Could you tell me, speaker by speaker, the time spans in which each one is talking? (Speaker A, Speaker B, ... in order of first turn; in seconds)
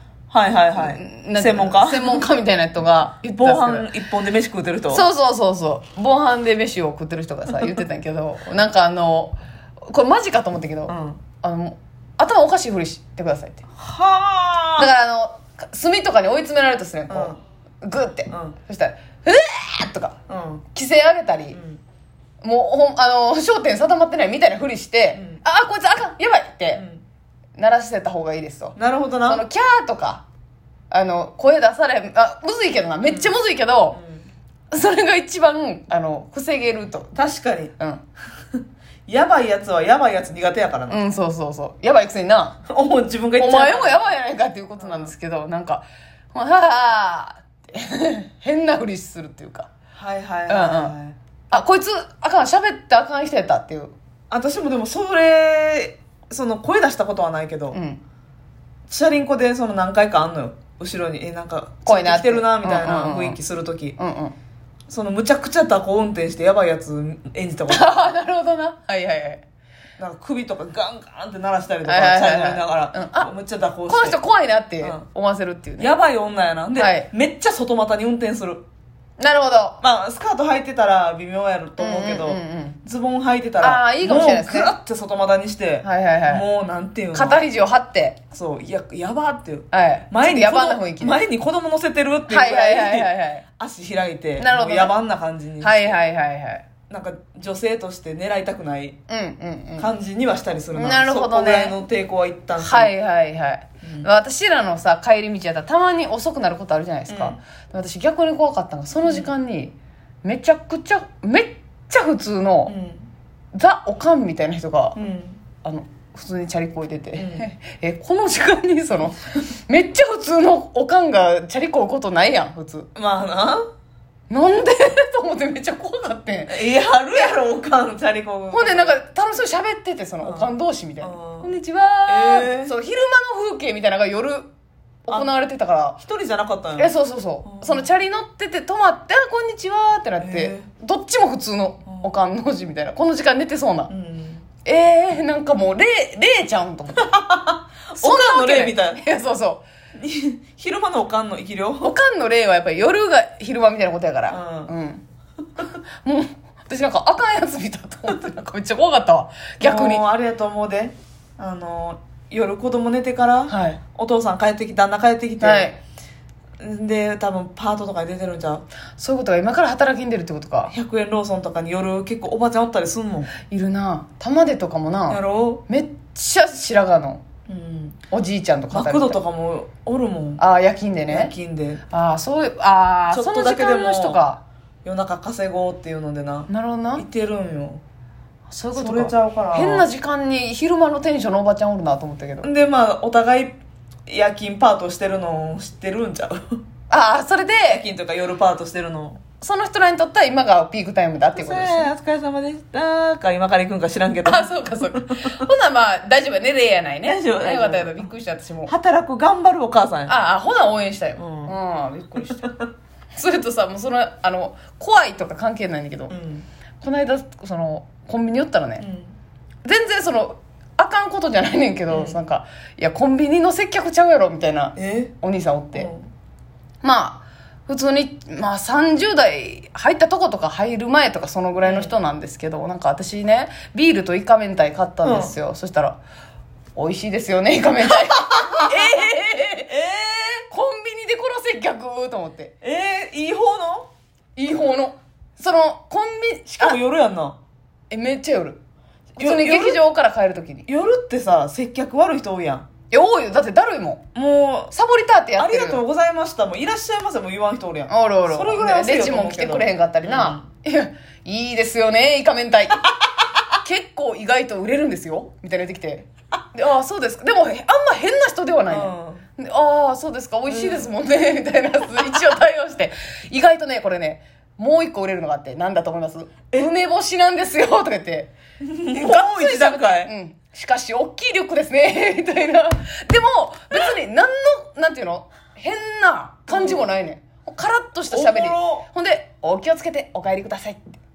Speaker A: 0.3-2.2, 3.3-5.0, 10.9-11.2, 13.8-14.9, 17.1-17.4, 18.3-18.6, 20.3-20.6, 21.5-21.8, 25.1-25.4, 26.7-27.0, 28.8-29.4, 33.0-33.4, 33.9-34.3, 37.1-37.7, 39.1-41.0, 42.7-44.2, 44.8-45.1, 50.0-51.2, 54.3-57.8, 58.9-64.0, 64.9-67.9, 70.0-74.2, 75.8-78.6, 79.8-87.4, 88.3-96.0, 96.9-99.0, 99.8-102.9, 103.8-104.1, 107.1-107.4, 109.0-109.3, 112.7-113.1, 115.0-115.4, 117.2-117.5, 122.9-123.6, 126.5-128.9, 130.2-131.5, 132.1-132.7, 136.0-137.9, 140.2-140.7, 143.9-144.4, 147.0-149.0, 150.0-151.9, 154.3-154.7, 159.6-165.7, 166.6-168.6, 170.7-173.3, 175.1-175.6, 177.5-178.0, 178.7-180.4, 181.1-181.8, 183.1-184.2, 184.8-187.8, 188.7-189.9, 192.4-196.6, 197.7-199.2, 201.3-205.3, 207.0-208.1, 208.7-210.1, 211.2-211.6, 216.1-216.4, 218.8-219.1, 221.9-222.2, 224.8-225.1, 225.7-226.1, 231.6-231.9, 235.0-235.3, 238.2-239.0, 239.7-240.4, 242.6-243.9, 246.5-247.4, 249.2-249.8, 250.7-252.7, 254.1-254.7, 255.3-260.4, 268.7-269.2, 270.5-270.9, 278.6-280.1, 286.5-286.9, 288.1-288.9
Speaker B: 0.8-3.9, 4.9-13.6, 14.8-20.1, 20.7-21.6, 22.4-26.8, 27.6-30.2, 30.9-34.0, 34.7-37.1, 37.8-38.0, 40.9-42.6, 43.4-49.7, 50.5-50.9, 51.5-53.9, 57.7-58.0, 61.9-63.4, 64.0-64.3, 67.7-69.4, 71.8-73.3, 73.9-75.9, 76.7-77.1, 79.2-79.8, 81.8-82.8, 83.6-84.7, 85.8-86.5, 87.1-88.2, 89.7-91.2, 92.3-93.4, 94.4-94.9, 95.6-96.6, 99.1-99.9, 100.7-101.8, 102.6-112.8, 113.5-115.0, 115.6-122.9, 124.3-127.4, 128.5-134.5, 135.1-136.0, 136.8-143.9, 144.6-147.1, 148.0-149.7, 151.8-155.0, 156.0-160.1, 163.5-163.8, 165.4-165.8, 169.0-170.7, 173.5-177.2, 178.1-179.2, 180.4-181.3, 181.9-184.4, 186.5-187.0, 188.5-192.5, 196.9-197.8, 199.4-201.9, 204.2-208.7, 210.1-212.5, 213.1-216.1, 216.8-218.8, 219.6-225.9, 226.8-236.0, 236.8-239.7, 240.5-242.5, 244.3-246.8, 247.9-248.6, 249.2-250.7, 252.9-254.0, 254.7-255.8, 257.9-262.8, 263.6-278.3, 278.9-291.0